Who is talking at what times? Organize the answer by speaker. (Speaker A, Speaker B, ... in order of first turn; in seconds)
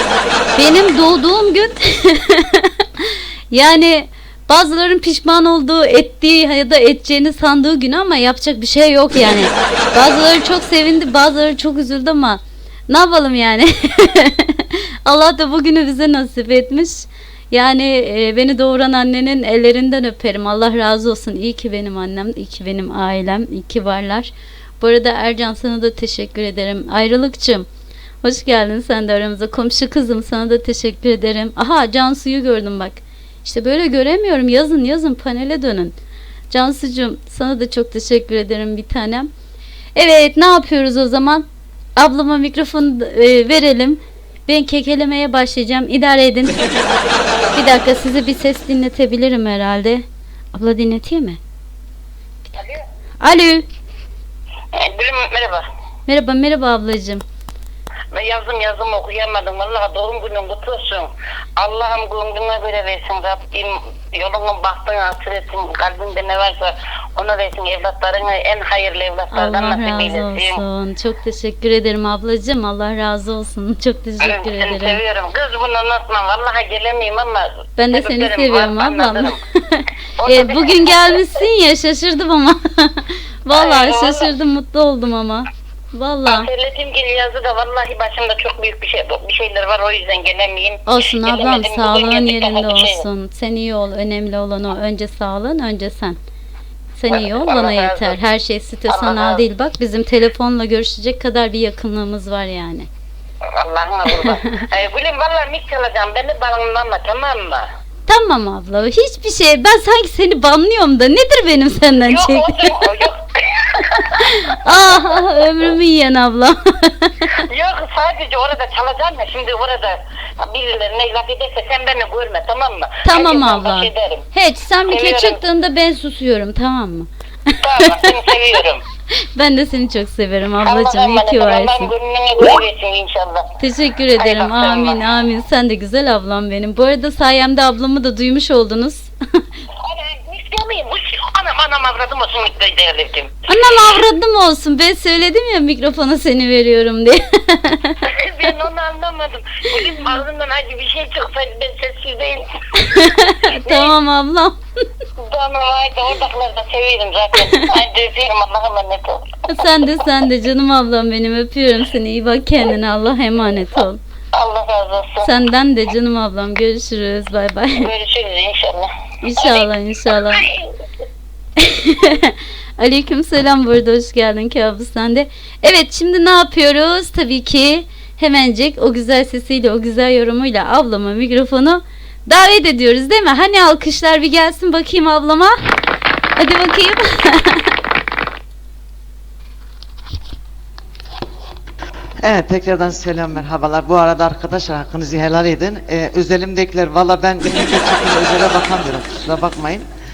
Speaker A: 0.6-27.7, 28.2-35.9, 36.5-39.3, 40.0-41.4, 42.0-46.6, 47.5-51.4, 53.2-53.7, 56.1-57.2, 69.3-75.0, 77.8-86.5, 90.9-96.2, 97.0-102.9, 104.2-104.7, 108.1-113.1, 114.1-117.4, 123.0-128.3, 129.2-131.9, 133.6-139.4, 143.5-148.1, 152.8-154.6, 157.4-157.8, 159.5-164.0, 165.2-167.9, 169.2-170.5, 171.6-185.6, 186.4-187.8
Speaker B: 52.5-52.8, 54.7-55.7, 58.1-70.6, 74.2-79.4, 80.2-81.3, 83.5-84.3, 86.3-93.0, 97.1-98.2, 98.9-99.4, 103.5-107.7, 112.0-115.1, 117.3-124.2, 124.9-125.4, 127.6-128.9, 130.6-133.5, 134.2-135.0, 139.8-143.9, 148.0-153.9, 155.2-159.4, 164.3-165.4, 167.7-170.8
Speaker C: 192.2-199.9